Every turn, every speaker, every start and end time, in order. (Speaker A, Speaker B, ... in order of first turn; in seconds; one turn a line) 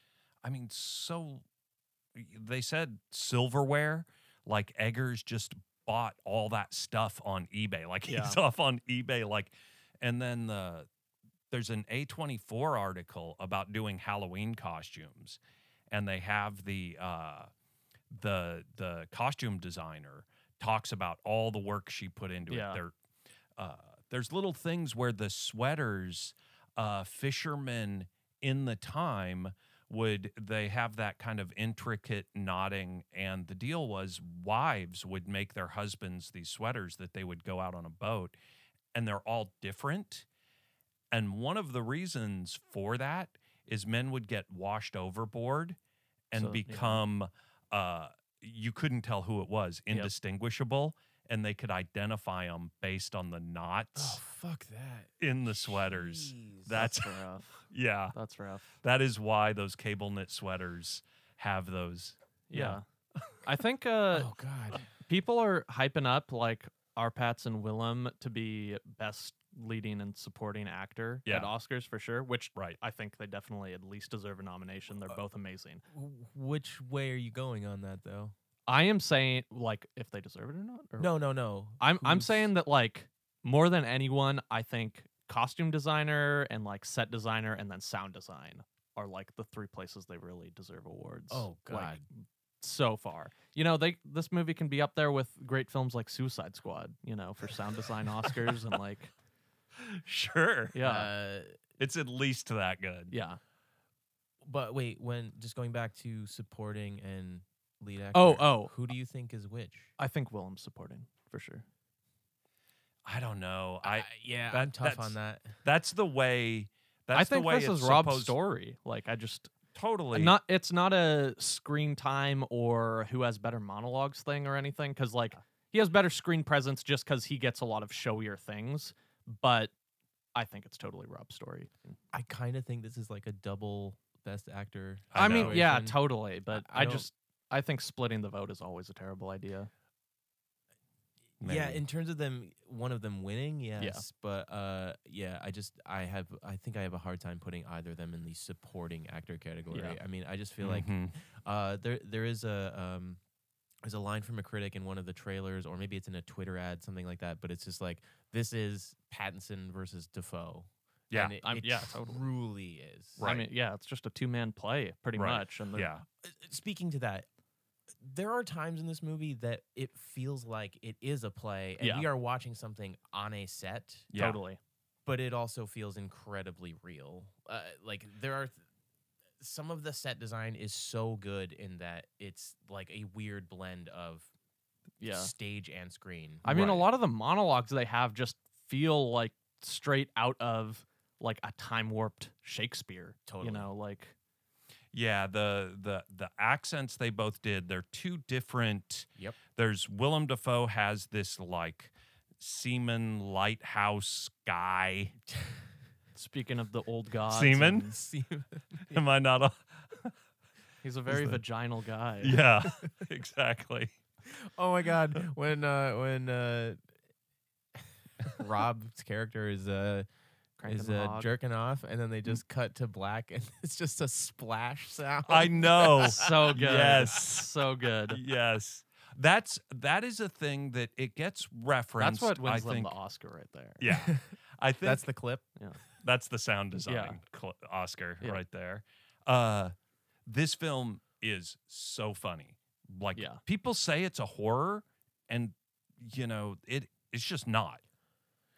Speaker A: 0.4-1.4
Speaker A: 2.1-10.9
Speaker B: 8.1-8.4
Speaker A: 11.5-15.4
Speaker A: 15.9-17.5
Speaker A: 18.1-22.9
Speaker B: 22.5-22.8
Speaker A: 23.6-38.4
Speaker A: 38.9-40.3
Speaker A: 41.1-45.8
Speaker A: 46.3-54.2
Speaker B: 46.3-47.0
Speaker C: 54.0-56.9
Speaker A: 55.2-58.1
Speaker B: 56.8-57.6
Speaker B: 58.1-58.7
Speaker A: 58.8-63.4
Speaker B: 62.5-62.8
Speaker B: 63.4-64.3
Speaker C: 64.1-64.8
Speaker B: 64.9-75.8
Speaker A: 71.3-71.5
Speaker C: 75.9-78.3
Speaker B: 78.7-81.1
Speaker C: 81.0-82.5
Speaker B: 81.8-99.1
Speaker C: 91.3-92.0
Speaker A: 99.8-100.8
Speaker B: 100.7-101.1
Speaker C: 100.8-101.6
Speaker A: 101.8-103.1
Speaker B: 103.1-103.4
Speaker C: 104.4-109.9
Speaker B: 108.1-108.7
Speaker B: 110.0-111.7
Speaker A: 113.0-118.4
Speaker C: 113.8-115.6
Speaker B: 117.1-119.5
Speaker A: 119.8-120.4
Speaker B: 120.1-129.7
Speaker B: 130.3-132.0
Speaker C: 132.1-137.1
Speaker A: 135.1-135.6
Speaker B: 135.2-139.7
Speaker A: 141.4-141.8
Speaker C: 141.4-153.2
Speaker B: 143.8-144.0
Speaker B: 149.7-150.0
Speaker A: 150.6-151.2
Speaker C: 153.8-163.3
Speaker A: 161.1-161.4
Speaker B: 161.4-162.2
Speaker A: 163.2-163.5
Speaker B: 163.2-165.9
Speaker A: 165.2-166.0
Speaker C: 166.2-167.3
Speaker C: 168.0-174.1
Speaker B: 171.8-172.1
Speaker A: 174.1-174.4
Speaker B: 174.1-174.6
Speaker C: 175.1-178.6
Speaker C: 179.4-184.3
Speaker B: 185.0-185.3
Speaker C: 185.0-186.7
Speaker B: 186.4-194.1
Speaker A: 186.5-186.8
Speaker C: 193.3-193.7
Speaker A: 194.9-205.2
Speaker B: 206.2-207.9
Speaker A: 207.3-207.9
Speaker C: 207.9-209.0
Speaker A: 208.9-210.2
Speaker B: 210.8-212.4
Speaker A: 211.1-211.4
Speaker A: 212.2-213.9
Speaker C: 214.3-216.8
Speaker C: 217.8-220.1
Speaker B: 220.6-221.3
Speaker C: 220.7-226.6
Speaker A: 225.3-227.5
Speaker B: 226.1-228.2
Speaker A: 228.1-232.9
Speaker B: 232.0-233.8
Speaker A: 233.8-235.1
Speaker C: 233.9-234.3
Speaker C: 234.8-235.4
Speaker A: 236.0-239.7
Speaker B: 236.9-237.2
Speaker A: 240.3-247.8
Speaker B: 243.2-243.4